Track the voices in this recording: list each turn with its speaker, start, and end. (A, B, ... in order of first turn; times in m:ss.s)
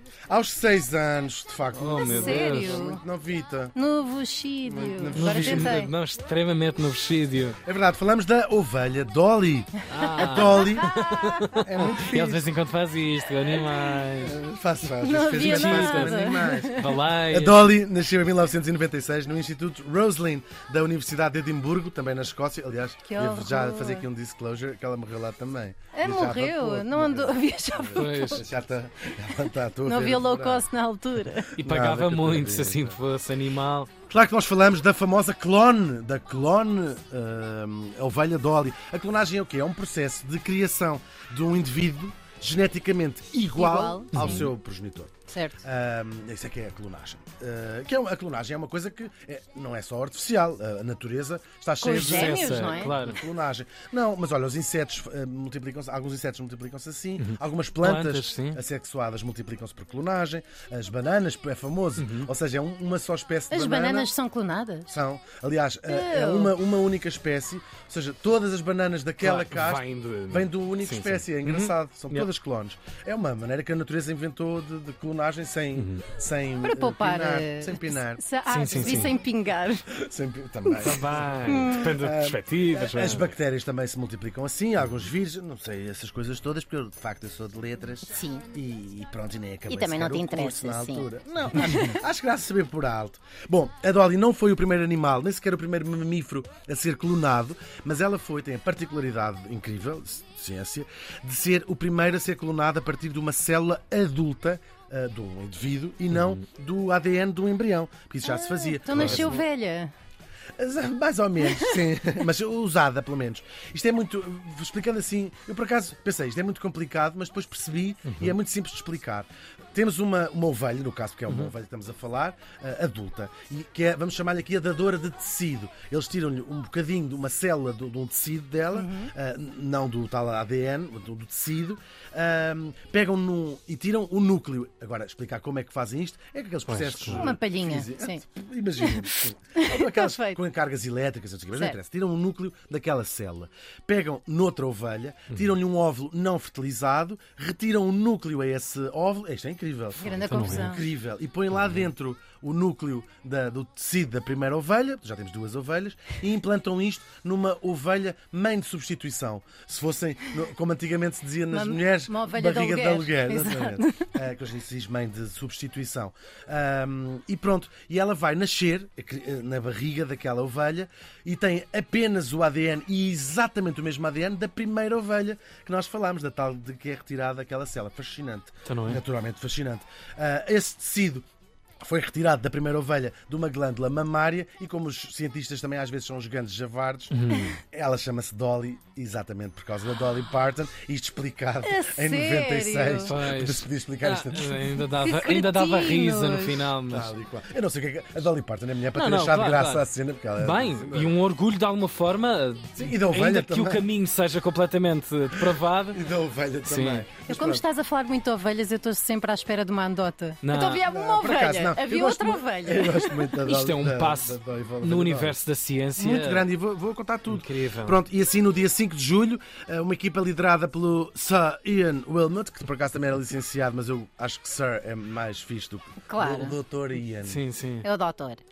0:00.3-0:03.8 A
0:01.7-0:02.8 B
0:02.0-0:03.0 C
0:03.7-0:05.9 C
0:04.6-0:05.8 A
0:05.1-0:07.6 B
0:07.6-0:12.5 A
0:09.9-0:14.4 B
0:11.1-0:11.3 C
0:14.2-0:30.7 A
0:15.0-0:16.9 C
0:15.4-0:17.6 B
0:23.0-0:24.1 C
0:25.9-0:28.4 C
0:28.0-0:28.4 B
0:29.8-0:31.6 C
0:31.6-0:33.9 B
0:31.6-0:33.0 A
0:34.1-1:04.1 A
0:43.5-0:44.5 C
0:44.1-0:44.5 B
0:45.3-0:45.6 C
0:51.8-0:52.9 C
0:51.9-0:53.2 B
0:57.2-0:58.6 B
1:02.0-1:02.3 B
1:03.5-1:04.9 C
1:04.9-1:18.2 A
1:05.9-1:06.5 C
1:09.2-1:12.3 B
1:15.7-1:16.0 B
1:16.6-1:19.9 C
1:18.5-1:19.2 B
1:18.8-1:19.1 A
1:19.9-1:49.4 A
1:20.8-1:23.3 B
1:21.4-1:21.9 C
1:28.1-1:28.4 C
1:29.7-1:32.0 C
1:48.2-1:49.9 C
1:48.9-1:49.4 B
1:50.6-3:01.3 A
1:51.5-1:51.8 C
1:58.0-1:58.3 B
2:01.3-2:01.5 B
2:08.7-2:09.1 C
2:16.6-2:17.3 B
2:17.2-2:18.2 C
2:18.8-2:20.4 C
2:30.0-2:30.8 C
2:30.3-2:30.7 B
2:41.5-2:44.1 C
2:58.6-2:59.0 B
3:01.8-3:14.6 A
3:07.1-3:07.6 B
3:11.6-3:13.1 C
3:13.0-3:17.1 B
3:14.8-3:16.7 C
3:16.8-3:21.1 A
3:18.9-3:26.0 B
3:22.8-3:23.8 A
3:25.9-3:27.6 A
3:26.6-3:27.1 B
3:27.2-3:33.3 C
3:30.4-3:30.8 B
3:30.8-3:35.4 A
3:33.4-3:36.5 B
3:36.0-3:47.4 A
3:37.3-3:38.0 B
3:46.1-3:46.6 C
3:47.2-3:47.9 B
3:47.8-3:48.4 C